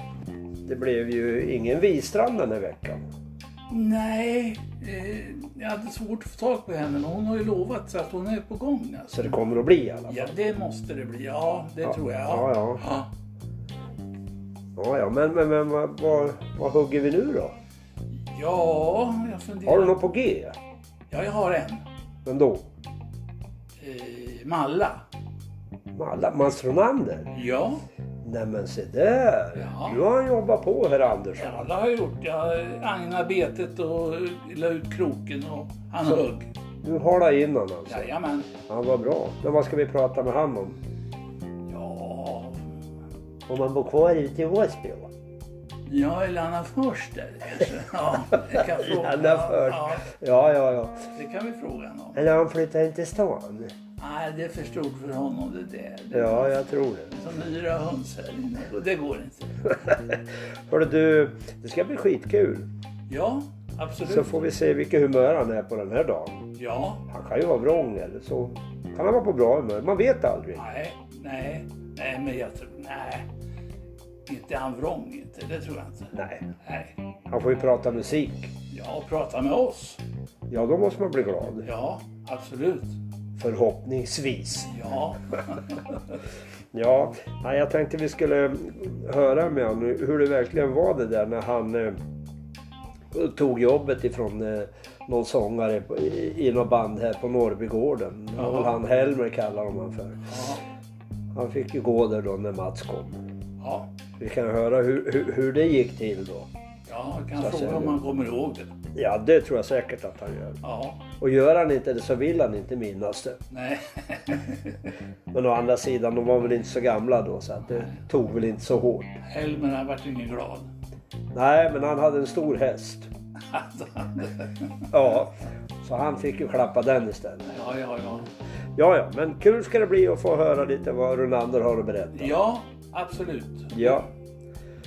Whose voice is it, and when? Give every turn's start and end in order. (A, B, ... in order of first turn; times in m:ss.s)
0:00.6-0:03.0 A
0:03.7-0:09.4 B
0:09.1-0:10.3 A
0:10.1-0:13.1 B
0:11.9-0:12.8 A
0:14.8-0:17.5 A
0:18.3-0:20.0 B
0:19.6-0:20.6 A
0:21.1-0:21.8 B
0:22.2-0:22.6 A
0:23.8-0:25.0 B
0:25.9-0:27.3 A
0:27.3-0:27.8 B
0:28.2-0:31.7 A
0:29.5-0:30.0 B
0:31.3-0:36.5 B
0:36.8-0:38.1 A
0:37.9-0:38.5 B
0:38.7-0:40.8 A
0:41.7-0:42.6 B
0:43.5-0:45.1 A
0:45.8-0:50.1 B
0:48.5-0:51.0 A
0:51.1-0:52.2 B
0:52.1-0:53.7 A
0:54.0-0:59.7 B
0:56.1-0:57.1 A
0:59.9-1:02.7 A
1:03.1-1:04.3 B
1:04.0-1:06.4 A
1:06.5-1:07.0 B
1:07.1-1:10.6 A
1:10.6-1:13.3 B
1:14.2-1:17.0 B
1:16.1-1:16.4 A
1:17.3-1:18.5 A
1:18.7-1:20.0 B
1:20.5-1:21.7 A
1:21.6-1:23.0 B
1:23.4-1:24.7 A
1:24.6-1:26.2 B
1:26.7-1:32.0 A
1:33.1-1:40.4 A
1:38.4-1:38.8 B
1:40.2-1:40.6 B
1:41.3-1:43.2 A
1:43.6-1:43.9 B
1:44.2-1:46.5 A
1:46.9-1:48.7 B
1:47.4-1:48.0 A
1:48.9-1:50.6 A
1:50.6-1:51.0 B
1:51.2-1:53.4 A
1:53.5-1:54.9 B
1:55.3-1:59.2 A
1:59.2-2:00.7 B
2:01.3-2:03.1 A
2:03.5-2:04.9 B
2:04.9-2:07.5 A
2:07.5-2:08.3 B
2:08.8-2:12.4 A
2:12.1-2:14.0 B
2:13.7-2:14.1 A